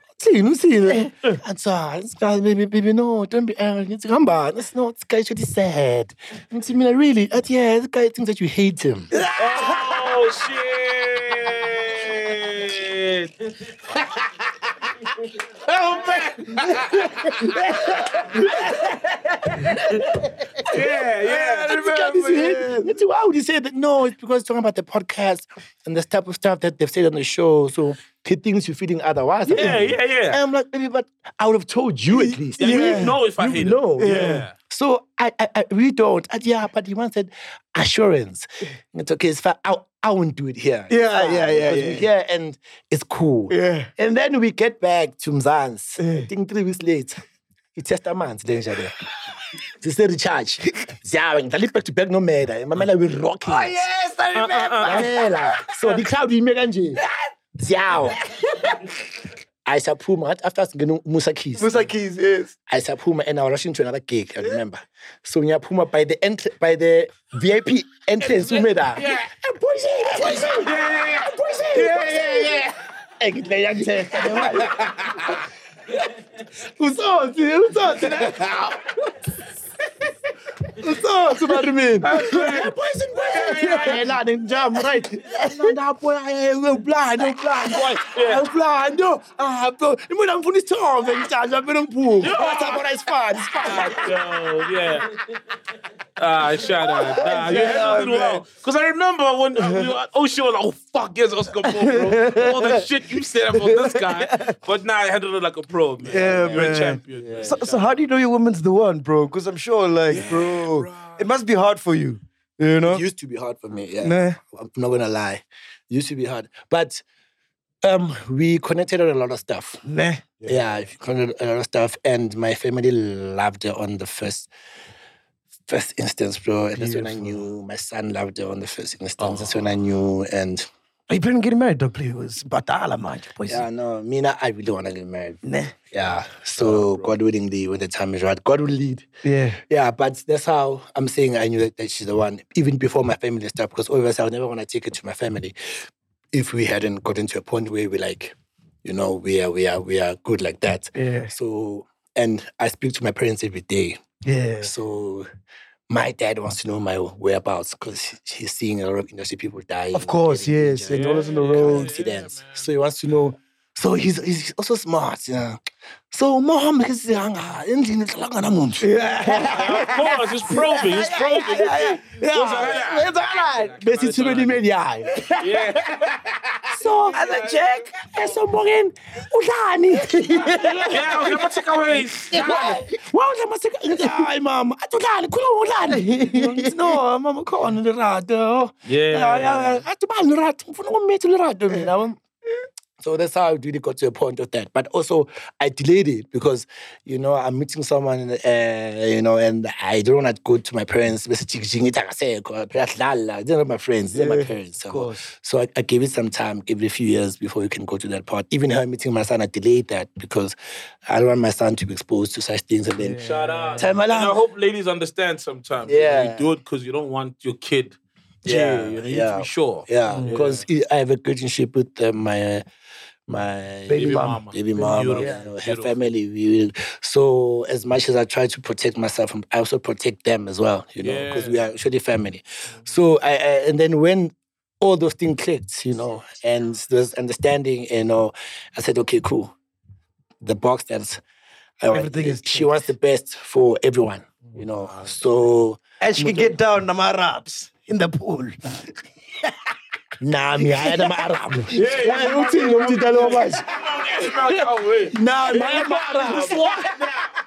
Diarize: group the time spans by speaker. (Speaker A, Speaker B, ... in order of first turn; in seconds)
Speaker A: 0.2-9.1, 17.5-20.9, 21.4-47.2, 47.8-48.9, 49.8-53.8, 54.8-57.0, 57.6-58.2, 59.7-61.8, 62.7-75.4, 76.4-78.9, 80.8-94.3, 97.3-97.6, 106.2-107.9, 112.9-117.0, 117.8-119.8, 120.5-124.5, 125.7-130.7, 133.5-145.6, 146.3-154.0, 154.6-155.3, 155.9-165.6, 166.1-175.6, 176.7-181.6, 182.3-192.2, 193.0-210.6, 211.1-213.2, 213.8-214.4, 215.9-216.5, 218.4-222.7, 223.3-239.5, 240.4-241.2, 241.8-246.5, 250.2-253.7, 254.5-257.0
Speaker B: 0.9-1.4, 9.1-9.9, 17.4-18.4, 19.5-23.0, 32.2-33.1, 34.0-34.5, 40.9-42.1, 43.5-43.9, 46.0-46.3, 53.5-55.9, 58.3-58.9, 61.6-62.5, 82.1-82.6, 83.6-84.0, 85.2-85.7, 97.1-98.4, 99.6-99.9, 101.6-102.8, 103.5-104.6, 106.1-113.0, 114.0-114.4, 119.8-120.2, 126.8-127.5, 131.1-133.7, 135.4-135.7, 139.2-139.6, 150.9-151.3, 154.2-154.7, 159.9-161.9, 168.8-172.0, 175.1-175.5, 180.1-181.0, 185.9-187.0, 204.1-205.3, 213.0-213.8, 220.1-220.4, 223.9-225.4, 241.9-242.8, 246.0-248.9, 250.7-251.1, 251.8-252.3, 255.5-257.1
Speaker C: 9.3-14.3, 15.2-18.4, 20.7-21.8, 29.5-30.4, 32.6-34.5, 54.3-55.1, 68.4-69.3, 70.2-72.7, 74.4-75.4, 82.0-84.2, 88.1-88.4, 92.2-92.9, 93.6-95.2, 96.2-107.9, 110.1-111.2, 120.4-120.8, 129.2-129.7, 136.6-137.1, 160.9-162.7, 169.5-174.6, 175.4-178.1, 180.8-182.8, 188.9-189.8, 213.2-220.7, 223.9-226.1, 231.0-231.7, 244.8-245.2, 251.7-257.1